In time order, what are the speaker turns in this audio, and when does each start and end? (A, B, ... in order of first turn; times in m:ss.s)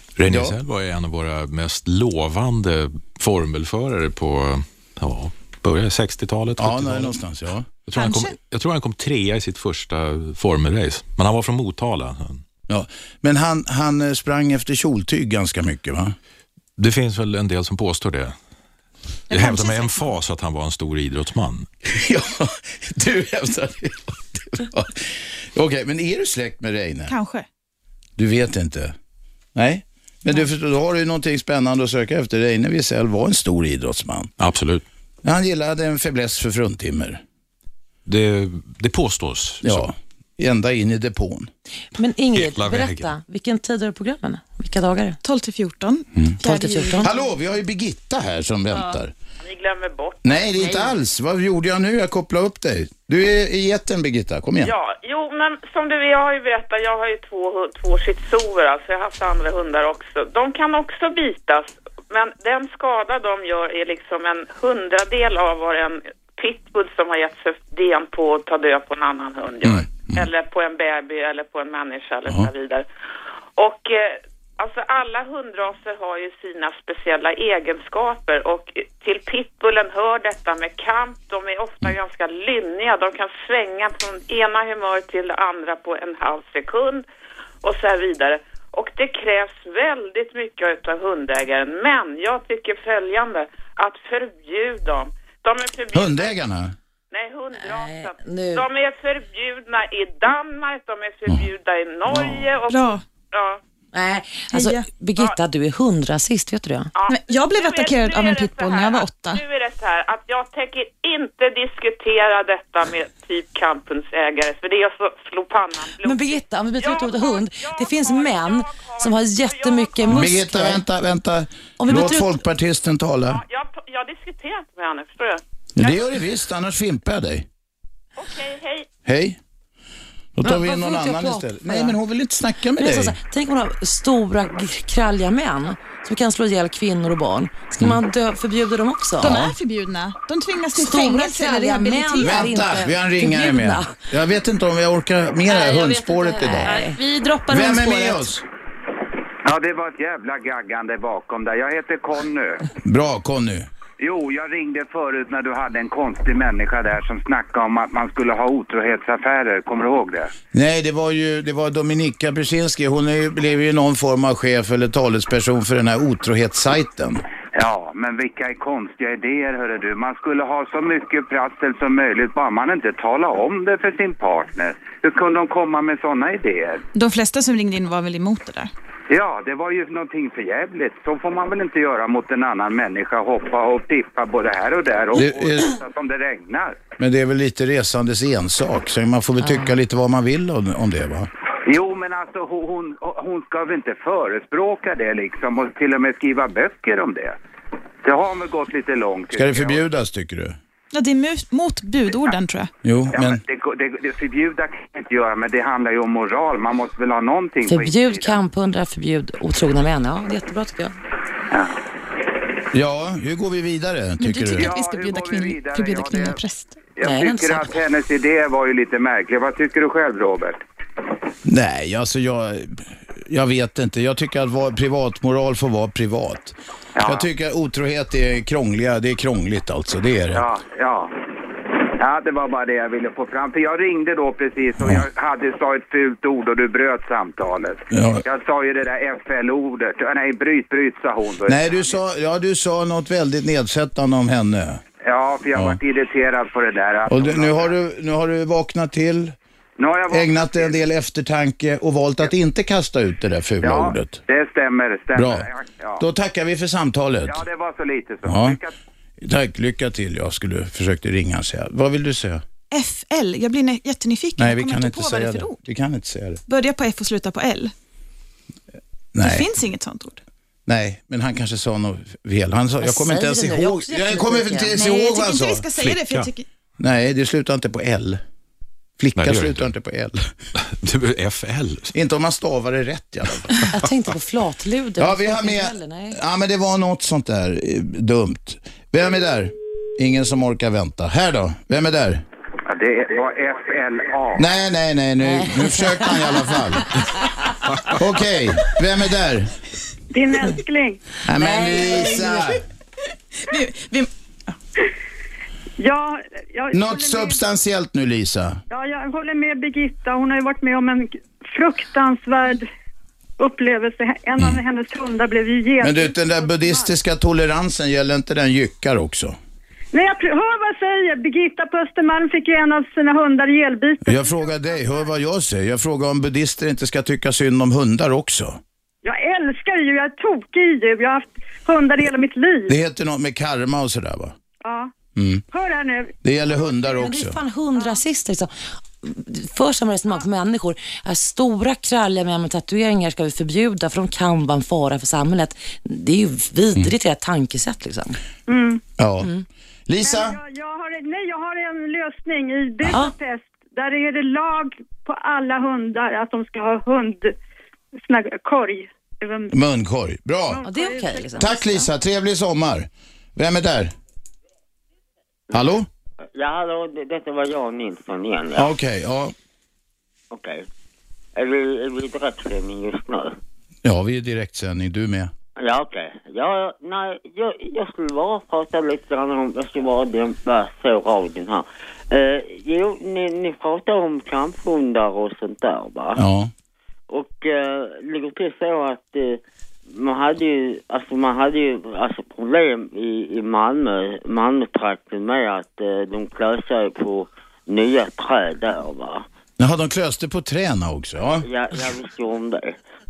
0:00.2-0:07.1 A
0:00.3-0:00.6 B
0:06.6-0:07.7 B
0:07.9-0:12.4 A
0:07.9-0:08.4 C
0:12.7-0:16.1 B
0:16.8-0:18.3 A
0:19.3-0:20.1 C
0:19.3-0:21.7 A
0:21.9-0:27.1 B
0:27.1-0:27.4 C
0:28.2-0:28.9 B
0:29.5-0:34.3 B
0:34.4-0:34.8 A
0:35.2-0:37.2 B
0:38.0-0:39.9 A
0:39.6-0:41.5 B
0:41.9-0:45.2 D
0:42.3-0:43.1 A
0:45.2-0:47.2 C
0:46.4-0:47.1 D
0:47.0-0:49.1 B
0:49.4-0:50.5 E
0:50.2-0:54.7 B
0:54.6-1:12.8 E
1:09.6-1:10.2 B
1:13.6-1:27.0 E
1:27.6-1:36.4 E
1:35.9-1:36.7 B
1:37.1-1:43.6 E
1:37.6-1:38.6 D
1:42.1-1:42.4 D
1:42.7-1:43.0 C
1:43.9-1:46.9 D
1:44.5-1:44.9 C
1:46.9-2:00.2 E
1:47.1-1:49.4 C
1:56.0-2:00.8 D
2:00.1-2:03.4 B
2:01.8-2:02.4 D
2:03.3-2:05.4 E
2:05.8-2:07.4 B
2:08.2-2:08.9 E
2:09.0-2:09.4 B
2:10.4-2:13.2 B
2:10.4-2:12.0 D
2:12.8-2:19.4 D
2:19.2-2:22.6 C
2:19.2-2:19.5 B
2:20.7-2:24.0 D
2:22.2-2:26.8 B
2:25.5-2:28.2 F
2:25.6-2:27.0 D
2:27.5-2:28.4 B
2:29.4-2:32.7 G
2:32.8-2:33.7 B
2:34.0-2:40.3 G
2:40.5-2:47.2 B
2:47.5-2:56.8 G
2:56.9-2:58.7 C
2:59.1-3:06.8 G
3:05.1-3:05.8 B
3:07.0-3:11.3 B
3:09.4-3:09.8 D
3:11.6-3:17.4 G
3:18.0-3:19.8 G
3:19.3-3:20.6 B
3:20.9-3:22.7 C
3:22.8-3:23.4 B
3:23.1-3:28.4 G
3:27.6-3:31.0 D
3:32.7-3:34.7 B
3:34.2-3:36.8 C
3:34.5-3:36.4 G
3:36.9-3:40.6 G
3:37.0-3:37.7 D
3:41.4-3:50.4 B
3:46.9-3:47.3 G
3:50.3-3:51.2 G
3:52.0-4:02.0 G
3:54.8-3:55.0 B
3:57.9-3:58.2 B
4:01.4-4:04.8 B
4:05.0-4:07.7 G
4:07.1-4:09.3 B
4:09.8-4:10.8 G
4:10.1-4:14.2 B
4:13.6-4:16.0 G
4:15.1-4:15.5 B
4:16.0-4:17.4 B
4:17.3-4:18.7 G
4:18.2-4:18.6 B
4:19.2-4:22.4 B
4:22.7-4:25.6 C
4:24.4-4:26.4 B
4:26.5-4:27.7 C
4:29.1-4:29.4 B
4:29.2-4:30.2 C
4:30.7-4:35.7 B
4:32.8-4:34.9 D
4:34.7-4:36.4 C
4:35.8-4:36.3 A
4:36.8-4:38.2 B
4:39.0-4:40.3 B
4:39.2-4:39.7 A
4:40.6-4:41.9 A
4:41.9-4:43.5 B
4:43.7-4:46.2 D
4:45.0-4:52.2 B
4:52.6-4:54.5 G
4:54.3-4:56.9 B
4:55.2-4:56.4 D
4:58.0-4:59.5 B
5:00.1-5:01.0 H
5:01.2-5:02.6 B
5:01.4-5:02.4 D
5:03.4-5:04.5 C
5:05.8-5:07.4 H
5:06.7-5:08.6 B
5:08.7-5:12.7 H
5:13.4-5:16.9 H
5:15.8-5:19.4 B
5:19.9-5:24.8 H
5:24.0-5:28.6 B
5:29.0-5:32.7 H
5:32.7-5:34.3 B
5:34.6-5:34.9 H
5:35.2-5:35.4 B
5:35.5-5:36.1 H
5:36.2-5:37.4 B
5:36.9-5:48.2 D
5:48.5-5:48.8 H
5:49.0-5:49.3 B
5:49.9-5:50.4 B
5:50.0-5:57.3 H
5:52.8-5:53.1 D
5:58.0-5:59.5 H
5:59.5-6:00.6 B
6:00.5-6:01.5 H
6:00.6-6:01.8 D
6:01.4-6:03.9 B
6:05.5-6:05.9 B
6:06.3-6:08.7 I
6:08.6-6:09.3 B
6:10.3-6:10.6 I
6:11.4-6:13.4 I
6:13.8-6:15.3 B
6:15.6-6:26.2 I
6:26.2-6:26.5 B
6:27.1-6:39.2 I
6:39.6-6:41.4 B
6:41.4-6:42.8 I